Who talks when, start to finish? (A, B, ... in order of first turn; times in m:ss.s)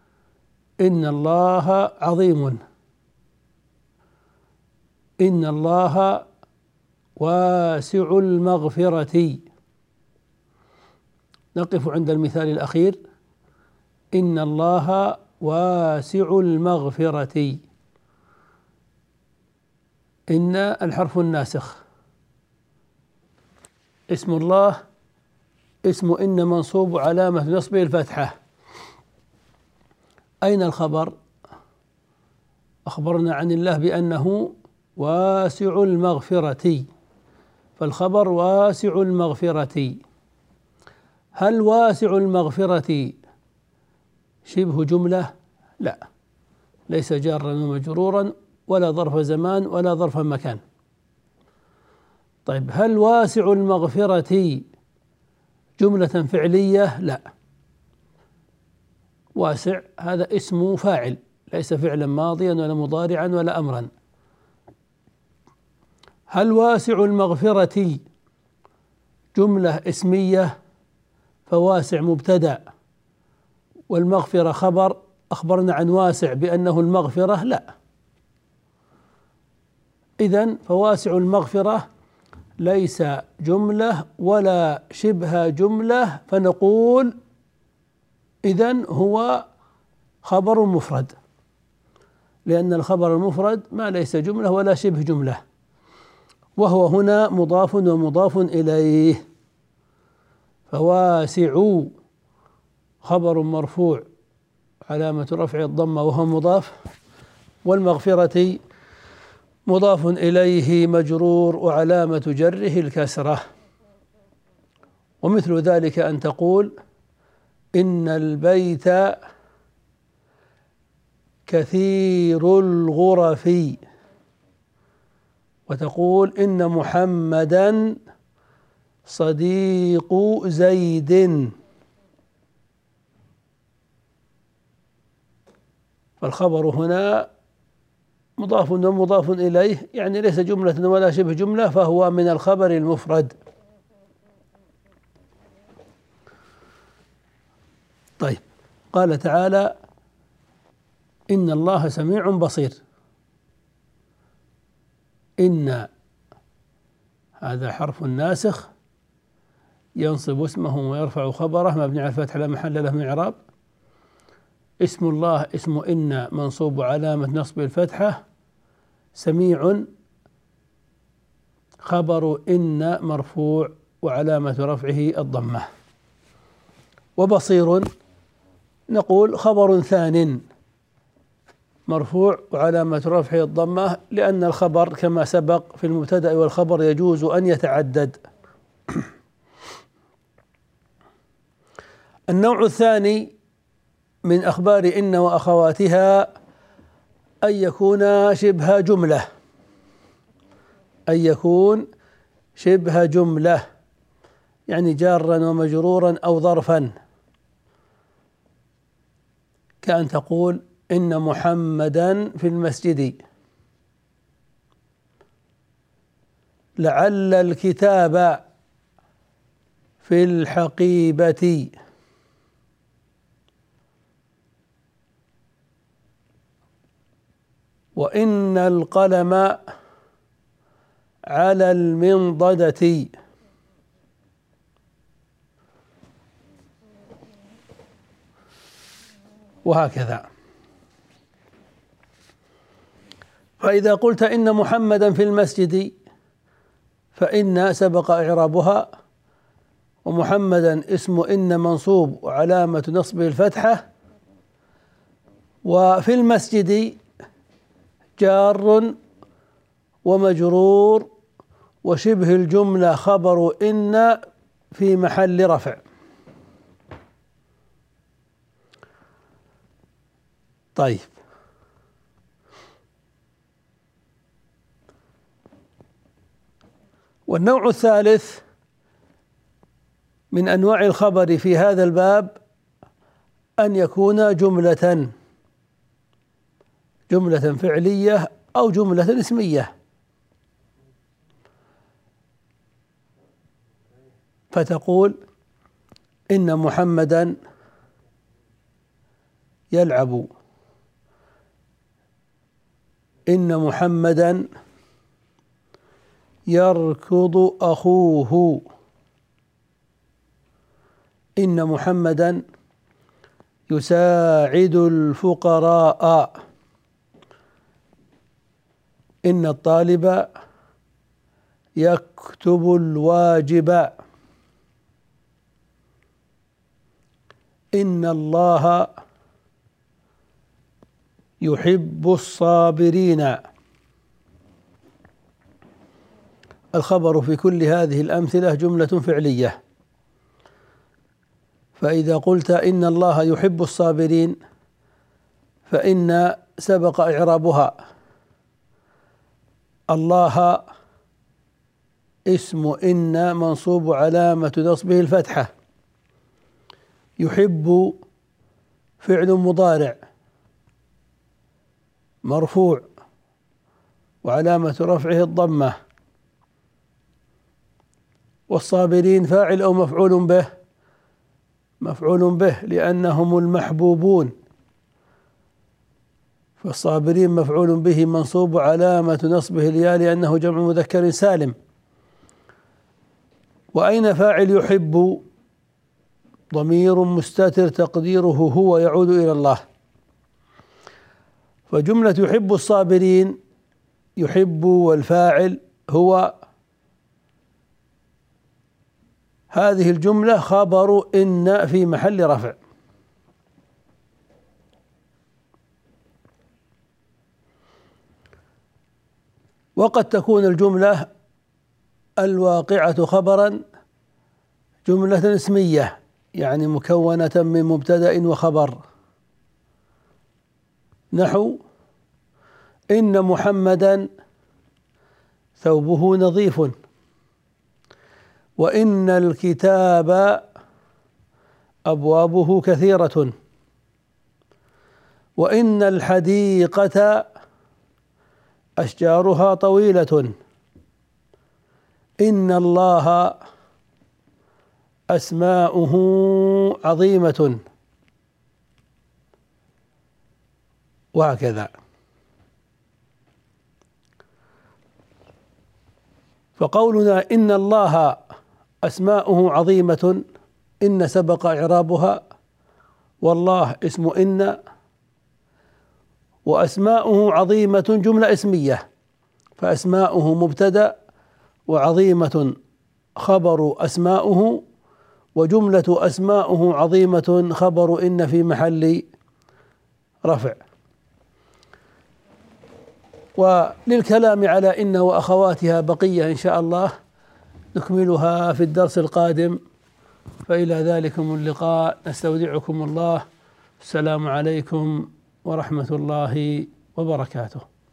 0:00.8-0:02.6 A
0:05.2-0:06.2 A
0:07.2-0:09.4 A
0:11.6-0:13.0 A
0:14.1-0:17.6 A
0:20.3-0:21.8 A
0:24.1-0:24.8 A
0:25.9-0:28.4 A
0:30.4-0:31.1 A
0:32.9-0:36.9 A
0:37.8-0:40.0 A
0:41.4-0:43.2 A
0:44.5-0:45.3 A
0:46.9-0:50.6 A
0:52.5-0:54.6 A
0:55.8-0:57.2 A
0:59.4-1:03.9 A
1:06.3-1:08.0 A
1:09.4-1:10.5 A
1:11.5-1:12.6 A
1:13.9-1:17.7 A
1:20.2-1:21.9 A
1:22.6-1:27.1 A
1:28.5-1:29.4 A
1:30.2-1:31.1 A
1:32.5-1:35.4 A
1:36.6-1:39.2 A
1:40.7-1:41.9 A
1:43.0-1:44.0 A
1:44.9-1:46.7 A
1:47.6-1:48.6 A
1:49.7-1:53.4 A
1:55.2-1:56.7 A
1:57.8-1:59.2 A
2:01.5-2:03.8 A
2:05.7-2:08.0 A
2:09.1-2:11.5 A
2:16.2-2:17.3 A
2:18.4-2:23.3 A
2:28.2-2:29.7 A
2:31.3-2:32.8 A
2:35.4-2:35.9 A
2:37.4-2:38.7 A
2:40.0-2:43.4 A
2:44.8-2:48.2 A
2:49.2-2:49.9 A
2:51.8-2:55.7 A
2:57.2-2:57.9 A
2:58.9-3:00.4 A
3:01.9-3:08.2 A
3:12.3-3:13.3 A
3:14.2-3:16.3 A
3:17.4-3:19.2 A
3:21.1-3:21.8 A
3:22.6-3:23.6 A
3:24.7-3:26.9 A
3:29.8-3:33.2 A
3:36.8-3:38.4 A
3:40.0-3:41.7 A
3:48.0-3:49.6 A
3:51.3-3:53.1 A
3:59.6-4:00.3 A
4:03.6-4:05.9 A
4:07.2-4:08.9 A
4:10.0-4:13.9 A
4:15.6-4:17.0 A
4:18.2-4:19.0 A
4:20.0-4:21.1 A
4:21.8-4:24.2 A
4:24.7-4:25.8 A
4:30.8-4:31.1 A
4:37.3-4:38.4 A
4:40.3-4:42.4 A
4:43.6-4:45.1 A
4:47.1-4:49.7 A
4:54.5-4:55.2 A
4:56.3-4:57.4 A
4:59.7-5:00.3 A
5:03.3-5:04.4 A
5:06.5-5:08.6 A
5:11.4-5:12.4 A
5:13.7-5:16.3 A
5:19.2-5:20.3 A
5:21.8-5:24.0 A
5:27.8-5:28.9 A
5:31.4-5:33.4 A
5:36.7-5:39.6 A
5:41.8-5:44.4 A
5:45.7-5:47.8 A
5:49.9-5:50.6 A
5:52.3-5:55.5 A
5:57.2-5:58.0 A
5:59.0-6:00.0 A
6:02.2-6:02.8 A
6:04.2-6:05.7 A
6:08.5-6:10.5 A
6:11.8-6:14.3 A
6:16.6-6:21.6 A
6:23.7-6:25.2 A
6:26.5-6:29.6 A
6:31.7-6:33.4 A
6:34.2-6:36.3 A
6:39.5-6:42.6 A
6:49.8-6:51.1 A
6:52.2-6:53.6 A
6:54.8-6:58.8 A
7:01.1-7:01.6 A
7:02.9-7:04.1 A
7:05.6-7:06.8 A
7:08.6-7:10.4 A
7:11.9-7:13.3 A
7:15.4-7:17.2 A
7:18.8-7:20.3 A
7:22.2-7:23.4 A
7:25.1-7:27.6 A
7:31.2-7:31.7 A
7:36.6-7:38.2 A
7:38.8-7:40.2 A
7:40.8-7:42.2 A
7:43.2-7:44.6 A
7:46.4-7:48.8 A
7:49.6-7:50.9 A
7:51.7-7:52.5 A
7:53.2-7:54.6 A
7:55.4-7:59.0 A
8:00.2-8:00.6 A
8:03.4-8:06.9 A
8:07.7-8:09.6 A
8:10.5-8:13.2 A
8:13.8-8:17.6 A